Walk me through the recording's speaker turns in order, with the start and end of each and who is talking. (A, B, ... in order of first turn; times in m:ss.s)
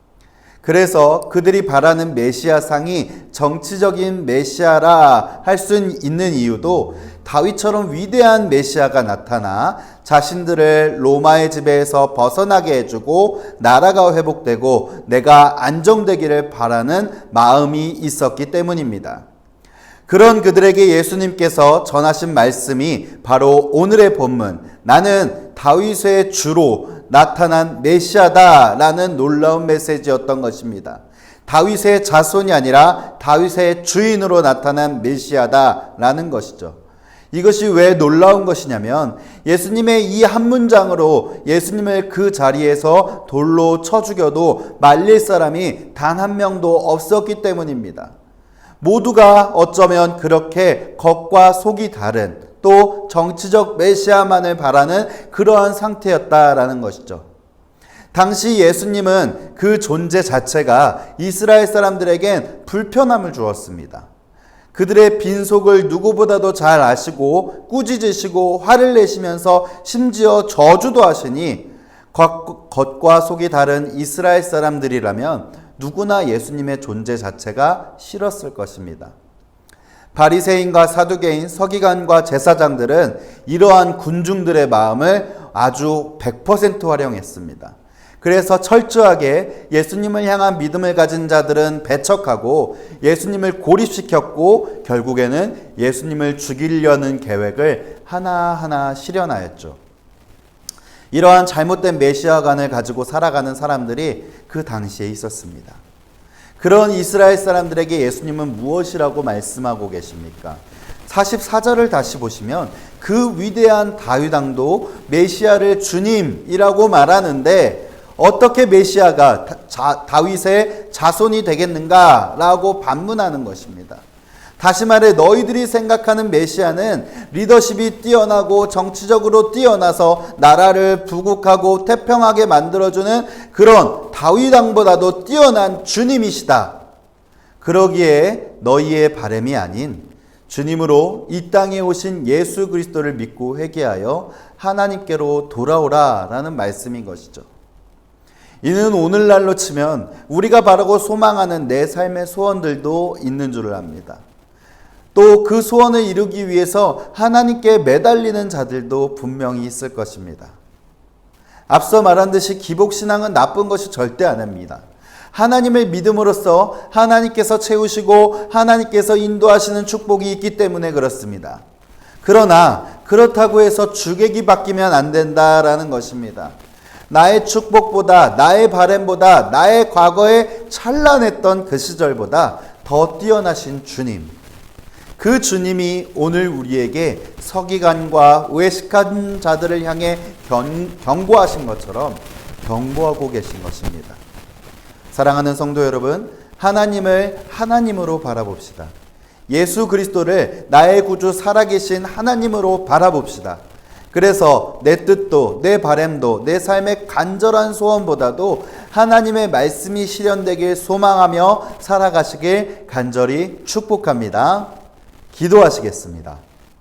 0:00.6-0:19.2 A
0:20.1-0:36.8 A
0:37.3-0:48.1 A
0:48.8-0:57.2 A
0:58.1-1:04.1 A
1:04.7-1:19.1 A
1:20.1-1:39.8 A
1:41.1-1:45.8 A
1:46.6-2:04.0 A
2:04.6-2:16.8 A
2:17.6-2:27.5 A
2:28.6-2:34.2 A
2:35.1-2:40.5 A
2:41.7-2:51.6 A
2:52.2-2:56.6 A
2:57.1-3:04.4 A
3:05.2-3:14.2 A
3:15.1-3:18.9 A
3:19.5-3:34.7 A
3:35.3-3:36.4 A